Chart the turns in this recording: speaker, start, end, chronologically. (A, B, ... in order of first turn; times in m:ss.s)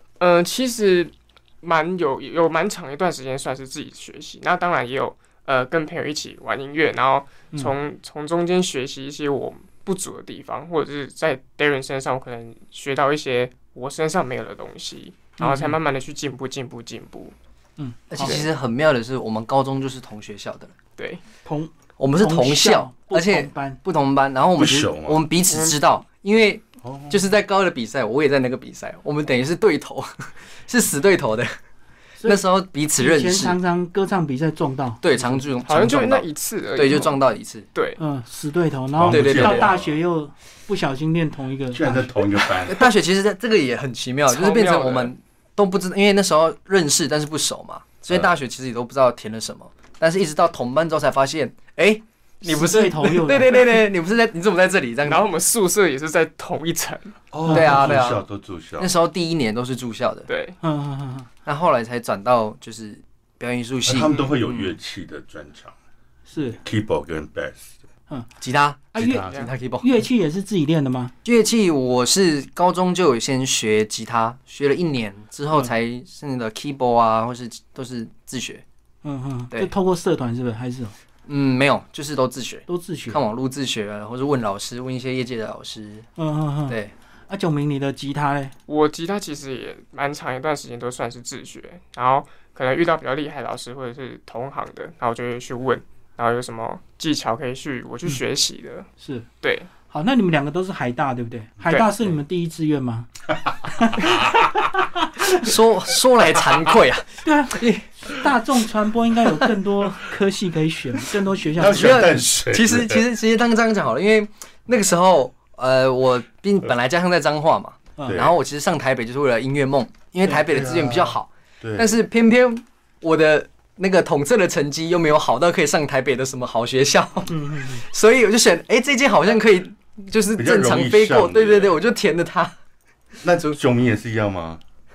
0:00.2-0:17.3 A
0:15.4-0:15.8 B
0:17.8-0:18.4 B
0:18.1-0:20.7 C
0:18.2-0:18.5 A
0:21.0-0:21.2 A
0:21.4-0:23.8 B
0:22.0-0:31.5 C
0:24.6-0:25.2 D
0:25.5-0:25.8 A
0:26.8-0:27.2 D
0:32.2-0:33.6 C
0:33.0-0:35.4 B
0:35.0-0:37.7 C
0:35.7-0:37.2 A
0:37.8-0:38.0 A
0:38.0-0:42.3 B
0:39.0-0:40.0 D
0:39.0-0:39.7 C
0:41.7-0:42.9 D
0:42.7-0:55.2 C
0:44.3-0:45.1 A
0:52.4-0:53.6 B
0:55.1-0:57.2 A
0:57.3-0:58.9 D
0:57.4-0:58.0 B
0:57.5-0:58.2 C
0:58.8-1:00.3 C
1:00.3-1:00.6 A
1:00.6-1:01.3 B
1:01.5-1:04.7 C
1:03.8-1:05.7 D
1:06.3-1:06.6 B
1:06.6-1:07.7 D
1:08.4-1:09.9 C
1:08.9-1:09.3 B
1:09.0-1:09.4 D
1:09.8-1:11.1 B
1:11.2-1:18.6 C
1:19.0-1:20.9 B
1:21.3-1:26.1 C
1:22.7-1:23.2 B
1:26.2-1:26.8 B
1:26.7-1:26.9 C
1:27.3-1:28.5 B
1:28.7-1:38.9 A
1:39.0-1:39.3 B
1:39.4-1:39.7 A
1:39.9-1:44.5 B
1:41.7-1:42.1 A
1:44.1-1:44.4 D
1:45.2-1:45.5 B
1:45.3-1:48.2 C
1:47.2-1:52.2 B
1:51.6-1:53.1 D
1:51.6-2:12.5 C
1:58.1-1:58.3 D
2:00.4-2:01.9 D
2:07.3-2:07.8 B
2:10.4-2:11.8 D
2:13.2-2:14.6 D